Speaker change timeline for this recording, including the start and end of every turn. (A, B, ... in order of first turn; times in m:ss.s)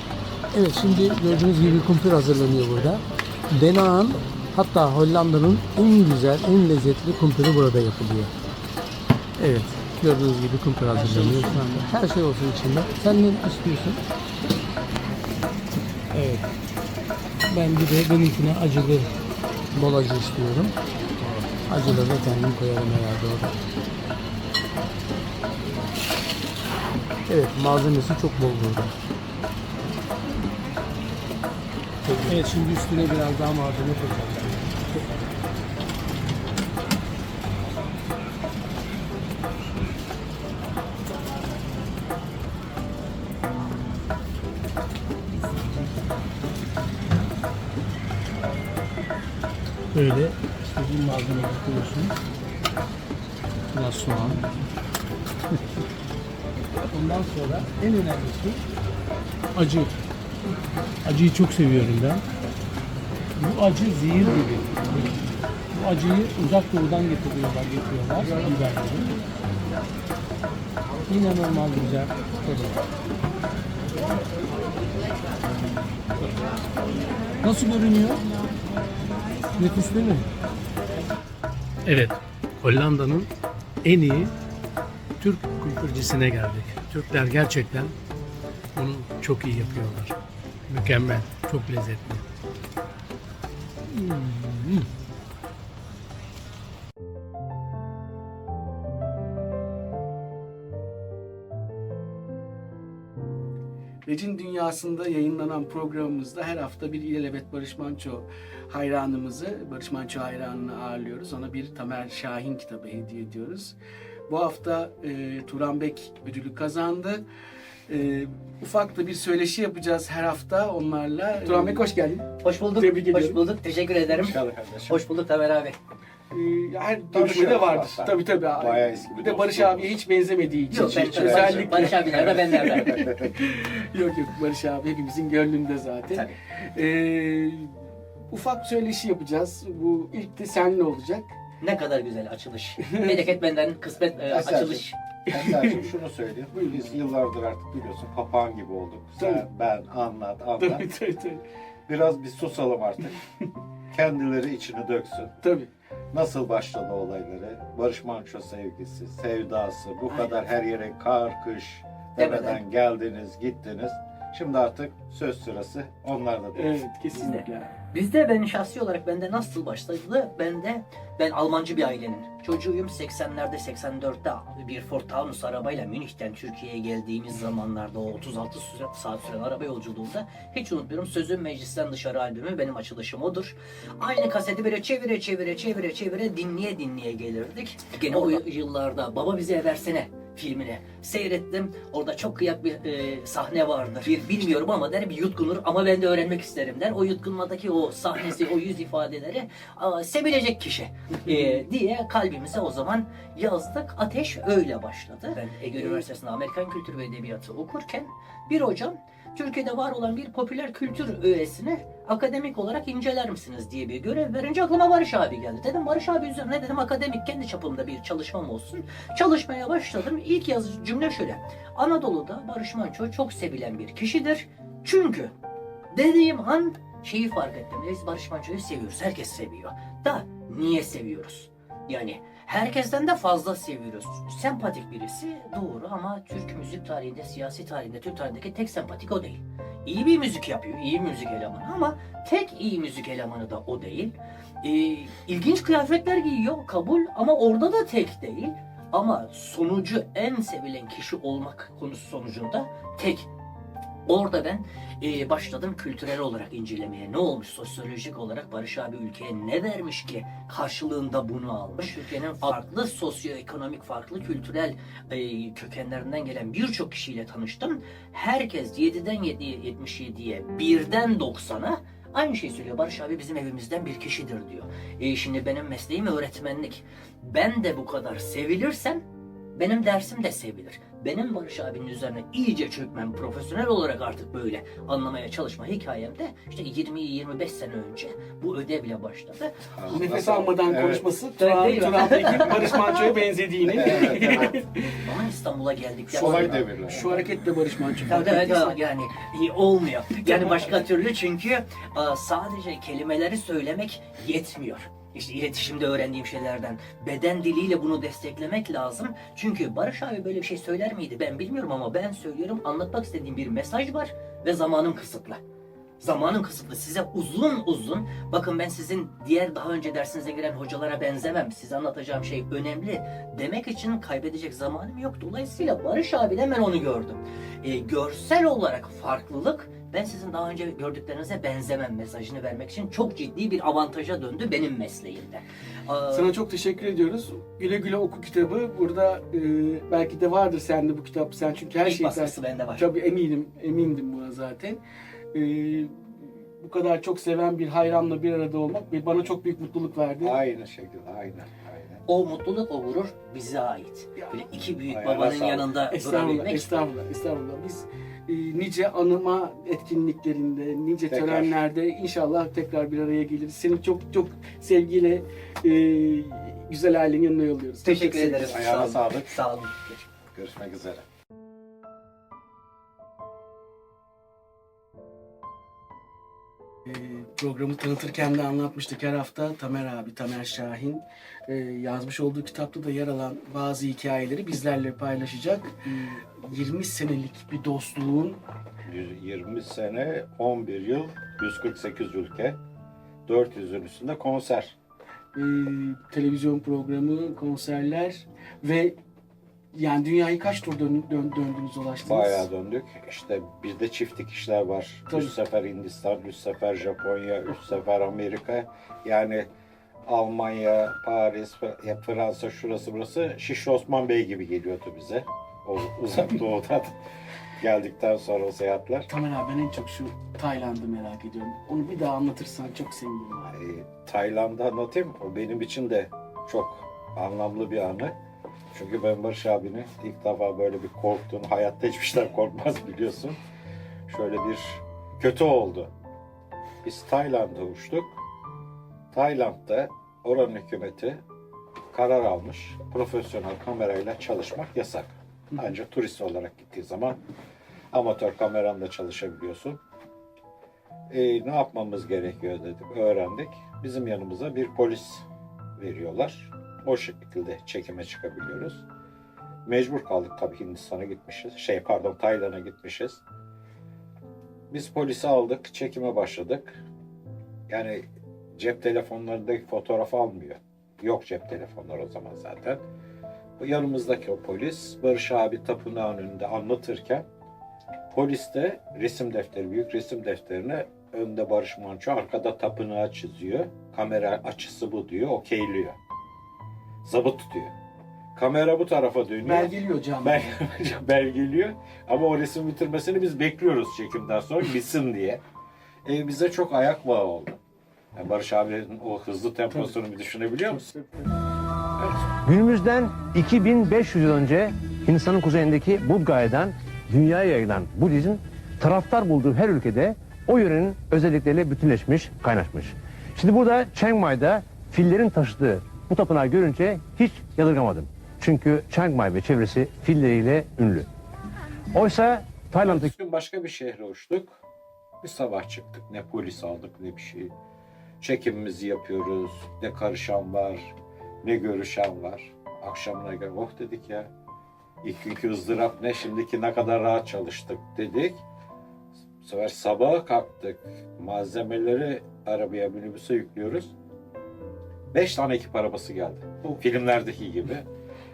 0:00.5-0:08.3 A
0:09.4-0:14.0 A
0:16.1-0:16.5 A
0:17.5-0:19.1 A
0:19.7-0:23.6 A
0:27.3-0:29.0 A
0:32.0-0:35.1 A
0:49.9-0:52.2 A
0:53.7-0:54.5 A
0:56.9-0:58.6 A
0:59.5-0:59.9 A
1:01.0-1:02.2 A
1:03.4-1:09.2 A
1:11.1-1:12.8 A
1:16.2-1:16.6 A
1:17.4-1:18.2 A
1:19.5-1:20.3 A
1:21.8-1:23.3 A
1:23.8-1:24.3 A
1:25.2-1:27.9 A
1:28.7-1:30.2 A
1:30.7-1:32.2 A
1:33.8-1:34.9 A
1:44.0-1:53.7 B
1:54.3-1:57.2 B
1:57.9-2:03.4 B
2:02.4-2:05.8 C
2:04.1-2:05.0 D
2:06.3-2:21.3 B
2:07.1-2:10.0 D
2:10.7-2:13.1 C
2:10.7-2:13.4 D
2:16.1-2:16.4 C
2:21.6-2:25.0 C
2:22.8-2:23.3 B
2:24.3-2:30.9 D
2:25.3-2:25.9 B
2:26.5-2:26.9 B
2:29.2-2:29.4 B
2:30.6-2:31.4 B
2:31.9-2:33.2 D
2:33.9-2:35.4 D
2:35.4-2:35.7 B
2:36.1-2:46.8 D
2:42.2-2:42.6 C
2:46.5-2:47.8 B
2:47.9-3:45.3 C
3:45.9-4:13.3 C
4:14.0-4:39.0 C
4:39.6-4:49.5 C
4:49.8-4:51.1 D
4:49.9-4:55.0 B
4:51.4-4:53.1 C
4:53.7-4:54.6 D
4:53.8-4:57.0 C
4:56.1-4:57.2 D
4:56.2-4:58.8 B
4:58.0-5:15.4 C
5:16.0-5:36.3 C
5:36.1-5:44.8 B
5:41.8-5:42.9 C
5:45.3-5:50.4 B
5:50.2-5:52.0 D
5:52.1-5:56.7 C
5:54.9-5:55.7 D
5:55.9-6:08.4 B
6:01.1-6:01.6 D
6:07.8-6:09.8 C
6:08.0-6:11.0 D
6:16.8-6:28.4 B
6:28.8-6:32.6 D
6:33.2-6:34.8 D
6:35.3-6:39.0 B
6:39.7-6:42.5 B
6:42.0-6:49.5 D
6:50.0-6:57.0 D
6:57.6-6:59.1 D
6:59.1-7:03.6 B
7:03.5-7:08.2 D
7:08.7-7:13.4 D
7:14.1-7:15.9 D
7:16.8-7:18.2 D
7:19.1-7:21.2 D
7:21.9-7:27.2 D
7:27.9-7:29.8 D
7:31.1-7:35.2 D
7:35.8-7:38.8 D
7:39.6-7:43.2 D
7:44.7-7:46.8 D
7:47.7-7:52.8 D
7:53.6-7:57.3 D
7:58.1-8:06.0 D
8:07.0-8:07.7 D
8:08.3-8:15.4 D
8:09.4-8:10.6 B
8:16.0-8:17.6 D
8:18.1-8:20.8 D
8:19.7-8:20.0 B
8:20.6-8:21.3 B
8:22.4-8:41.1 E
8:41.9-8:43.1 E
8:42.8-8:44.6 D
8:45.2-8:47.5 D
8:48.2-8:54.3 D
8:55.0-8:58.4 D
8:59.4-9:03.9 D
9:05.1-9:07.9 D